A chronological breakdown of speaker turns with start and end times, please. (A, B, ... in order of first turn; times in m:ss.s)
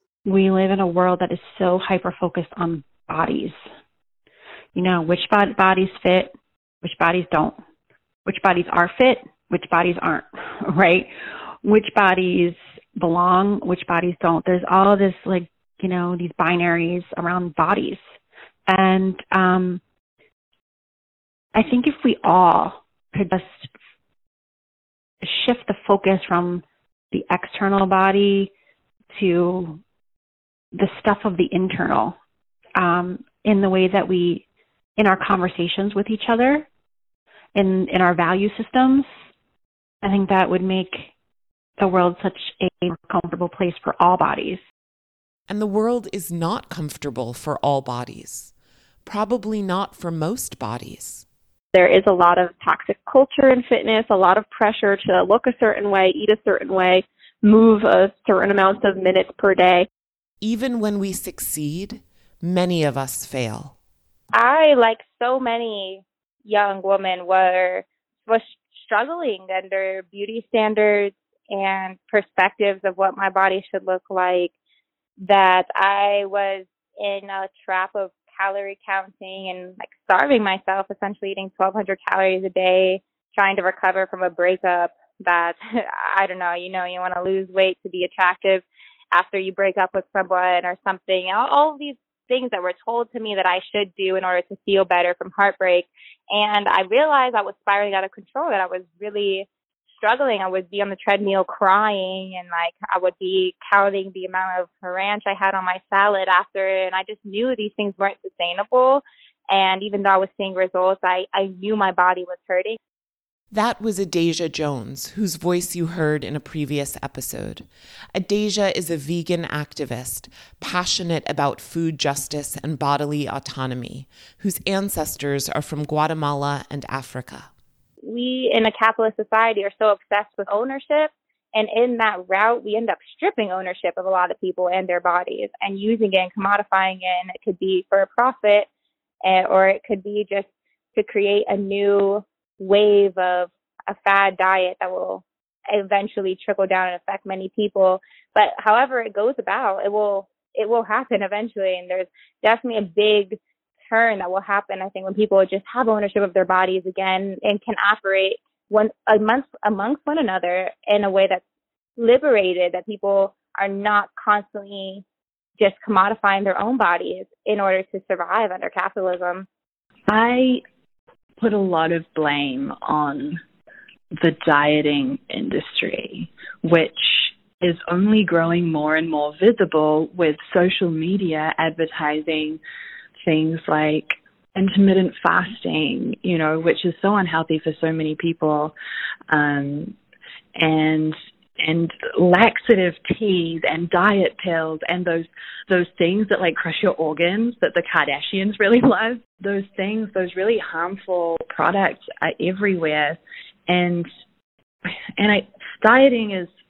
0:00.2-0:03.6 A
0:04.7-0:07.6 A
0:08.2-0:11.1 A
0:11.6-0:18.0 A
0:18.7-0:19.8 A
0:21.5-0:23.7 A
0:25.2-0:28.5 A
0:29.1-0:29.8 A
0:30.7-0:32.2 A
0:32.8-0:34.4 A
0:35.0-0:36.7 A
0:37.5-0:39.1 A
0:40.0-0:41.1 A
0:41.8-0:44.6 A
0:45.5-0:48.5 B
0:49.0-0:51.2 B
0:51.7-0:59.9 C
1:00.4-1:03.7 B
1:04.3-1:14.5 D
1:15.2-1:39.5 D
1:40.0-1:52.8 D
1:53.5-2:07.5 B
2:08.0-2:18.7 D
2:19.2-2:41.4 D
2:42.0-2:45.0 D
2:45.6-2:49.5 D
2:50.1-2:50.6 E
2:51.4-2:53.4 E
2:54.2-3:02.6 E
3:03.2-3:08.7 E
3:09.3-3:10.0 E
3:10.6-3:24.1 E
3:25.2-3:26.5 E